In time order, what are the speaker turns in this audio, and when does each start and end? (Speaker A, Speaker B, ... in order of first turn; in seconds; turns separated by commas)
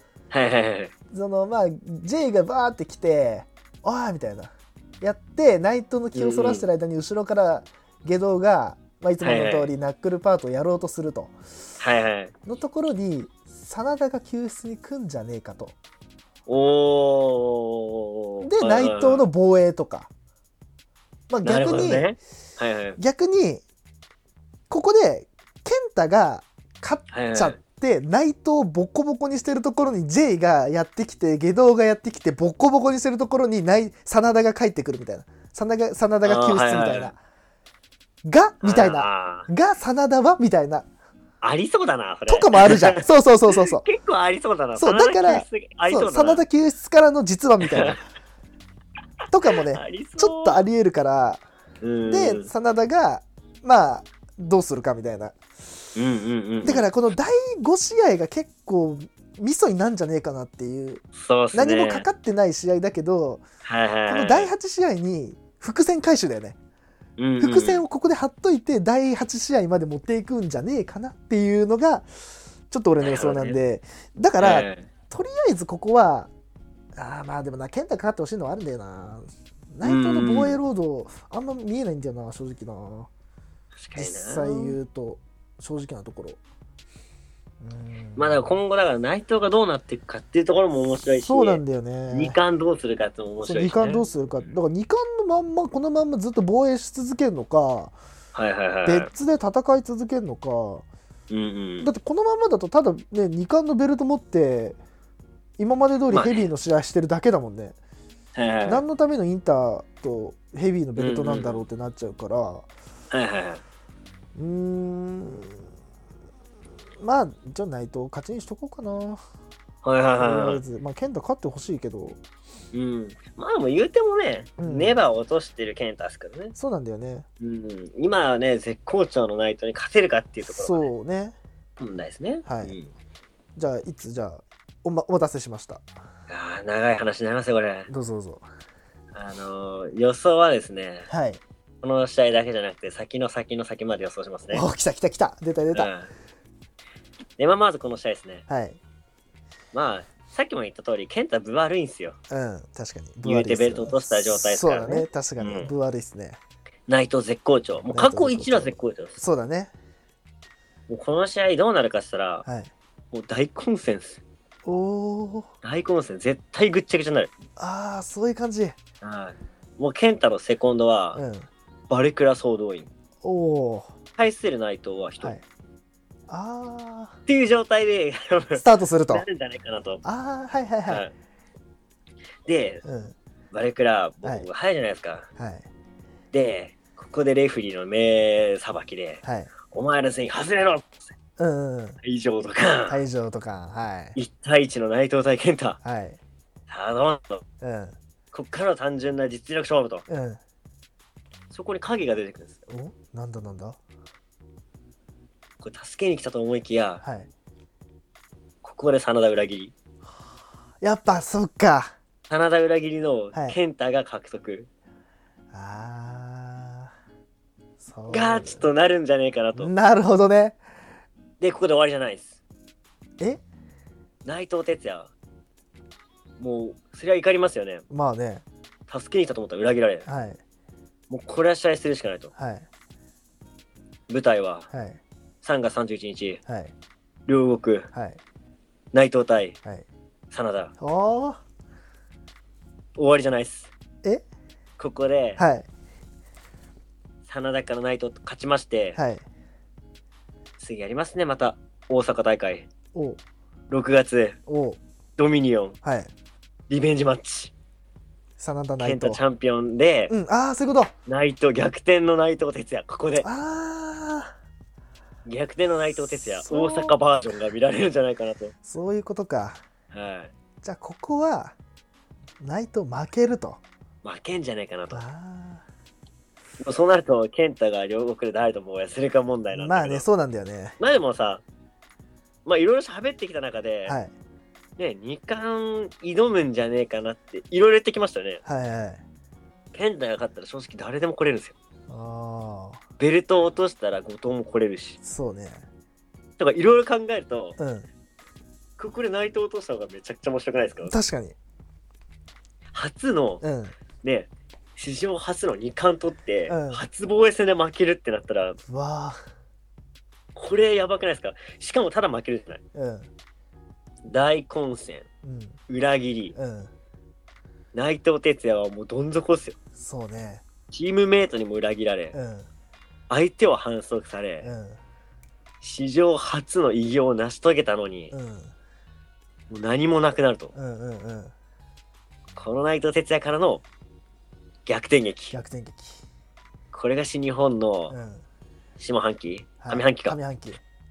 Speaker A: 0.3-0.9, Speaker B: 1.1-11.4, Speaker A: 6.2-6.7, Speaker A: 9.2-9.7, Speaker A: 11.8-12.3, Speaker B: 12.5-15.8, Speaker A: 16.5-19.3, Speaker B: 18.4-20.1, Speaker B: 21.3-22.1, Speaker A: 21.4-23.0, Speaker B: 23.0-23.6, Speaker B: 24.7-37.2, Speaker A: 27.1-27.6, Speaker A: 36.2-37.1, Speaker B: 38.2-40.9, Speaker A: 38.6-39.5, Speaker A: 41.4-46.4, Speaker B: 42.3-43.9, Speaker B: 44.8-48.0, Speaker A: 47.6-47.9, Speaker B: 49.3-51.4, Speaker A: 49.7-50.6, Speaker A: 51.8-52.5, Speaker B: 52.1-55.4, Speaker A: 56.0-56.9, Speaker B: 56.6-63.4, Speaker A: 61.2-62.1, Speaker A: 63.6-64.5, Speaker B: 64.1-66.6, Speaker A: 67.2-67.8, Speaker B: 67.4-72.1, Speaker B: 72.7-76.3, Speaker A: 73.0-73.6, Speaker A: 74.4-74.9, Speaker B: 77.0-83.1, Speaker A: 79.8-80.6, Speaker A: 83.8-84.8, Speaker B: 84.0-86.4, Speaker B: 87.6-88.6, Speaker A: 88.2-94.5, Speaker B: 91.1-92.4, Speaker B: 93.4-98.0, Speaker A: 98.3-99.1, Speaker B: 98.9-100.9, Speaker A: 101.3-101.9, Speaker B: 101.8-104.8, Speaker B: 105.6-107.8, Speaker A: 106.1-106.5, Speaker A: 108.4-108.8, Speaker B: 108.7-112.7, Speaker A: 111.0-111.6, Speaker A: 113.1-113.6, Speaker B: 114.3-115.7, Speaker B: 117.0-119.2, Speaker A: 119.8-120.6, Speaker B: 120.2-122.2, Speaker A: 122.7-126.5, Speaker B: 124.6-125.0, Speaker B: 126.6-127.3, Speaker A: 127.4-130.9, Speaker B: 130.4-131.4, Speaker A: 131.8-132.9, Speaker B: 132.5-132.8, Speaker B: 133.6-135.8, Speaker A: 136.3-137.9, Speaker B: 137.9-138.5, Speaker A: 139.2-141.1, Speaker B: 141.1-141.4, Speaker A: 141.8-144.7, Speaker B: 144.5-145.9, Speaker A: 145.8-146.1, Speaker A: 147.4-148.4, Speaker B: 148.5-148.8, Speaker A: 149.7-152.2, Speaker B: 152.3-156.4, Speaker A: 153.2-155.7, Speaker A: 156.9-159.2, Speaker B: 157.9-159.7, Speaker A: 160.9-162.4, Speaker B: 162.5-162.7, Speaker A: 163.1-164.2, Speaker B: 164.7-165.5, Speaker A: 165.6-167.3, Speaker B: 167.6-168.8, Speaker A: 169.0-171.2, Speaker B: 171.2-171.5, Speaker A: 171.9-172.9, Speaker B: 173.2-173.9, Speaker A: 174.2-175.4, Speaker B: 176.3-177.2, Speaker A: 177.3-180.0, Speaker B: 178.6-179.3, Speaker B: 180.0-181.1, Speaker A: 180.9-181.1, Speaker A: 182.5-182.8, Speaker B: 182.8-183.2, Speaker A: 183.5-185.3, Speaker B: 185.4-185.7, Speaker A: 186.3-191.0, Speaker B: 189.2-189.5, Speaker B: 191.4-192.0, Speaker A: 192.0-193.0, Speaker B: 192.9-194.2, Speaker A: 194.2-195.8, Speaker B: 195.8-196.2, Speaker A: 196.7-197.4, Speaker B: 197.6-197.9, Speaker A: 198.3-200.1, Speaker B: 200.1-200.4, Speaker A: 201.5-202.5, Speaker B: 202.7-203.8, Speaker A: 205.6-207.0, Speaker B: 207.0-207.3, Speaker A: 208.6-209.7, Speaker B: 210.8-211.9, Speaker A: 212.3-214.7, Speaker B: 215.5-216.9, Speaker B: 217.8-218.7, Speaker A: 218.1-219.7, Speaker B: 219.6-220.6, Speaker A: 221.4-222.4, Speaker A: 224.2-225.1, Speaker A: 226.4-227.8, Speaker B: 227.9-228.4, Speaker A: 228.9-230.1, Speaker B: 230.1-230.4, Speaker A: 231.1-232.3, Speaker B: 232.4-232.7, Speaker A: 234.1-234.7, Speaker B: 234.7-235.0, Speaker A: 235.4-236.4, Speaker B: 236.5-236.7, Speaker A: 237.3-237.9, Speaker B: 237.9-238.2, Speaker A: 238.9-239.6, Speaker A: 240.3-240.7, Speaker B: 240.8-241.4, Speaker A: 243.0-243.7, Speaker A: 244.8-245.4, Speaker B: 245.4-245.7, Speaker A: 247.3-249.0, Speaker B: 249.0-249.3, Speaker A: 250.6-252.7, Speaker B: 252.9-253.2, Speaker A: 253.7-254.4, Speaker B: 254.5-254.8, Speaker A: 255.2-255.8, Speaker B: 255.8-256.1, Speaker A: 256.7-257.5, Speaker B: 258.4-259.2, Speaker A: 258.8-260.1, Speaker B: 260.1-260.9, Speaker A: 261.1-263.3, Speaker B: 263.2-264.3, Speaker A: 265.3-268.5, Speaker B: 266.3-267.0, Speaker B: 268.7-269.6, Speaker A: 269.9-270.3, Speaker B: 270.6-271.6, Speaker B: 272.4-273.6, Speaker A: 274.0-275.1, Speaker B: 274.9-275.7, Speaker A: 276.6-280.1, Speaker B: 279.6-280.8, Speaker A: 280.8-281.4, Speaker A: 282.5-284.0, Speaker B: 283.9-284.1, Speaker A: 284.8-288.4, Speaker B: 288.5-289.0, Speaker A: 289.7-291.6, Speaker B: 291.9-292.8, Speaker A: 293.0-295.0, Speaker B: 295.0-295.6, Speaker A: 296.4-297.6, Speaker B: 297.6-297.9, Speaker A: 298.8-300.9, Speaker B: 300.9-301.4, Speaker A: 302.7-303.4, Speaker B: 303.4-303.8, Speaker A: 304.0-308.6, Speaker B: 306.5-306.9, Speaker B: 308.7-309.2, Speaker A: 310.4-312.6, Speaker B: 312.8-313.1, Speaker A: 314.1-315.1, Speaker B: 315.2-315.6, Speaker A: 315.7-316.4, Speaker B: 316.4-316.7, Speaker A: 317.7-319.6, Speaker B: 319.8-320.4, Speaker A: 320.7-322.2, Speaker B: 322.1-322.5, Speaker A: 323.1-324.5, Speaker B: 324.4-324.8, Speaker A: 325.6-328.1, Speaker B: 328.1-328.5, Speaker A: 329.5-330.5, Speaker B: 330.6-331.3, Speaker A: 332.4-333.6, Speaker A: 334.7-335.4, Speaker B: 335.3-336.0, Speaker A: 336.7-338.0, Speaker B: 337.9-338.2, Speaker A: 338.8-340.2, Speaker B: 339.6-340.6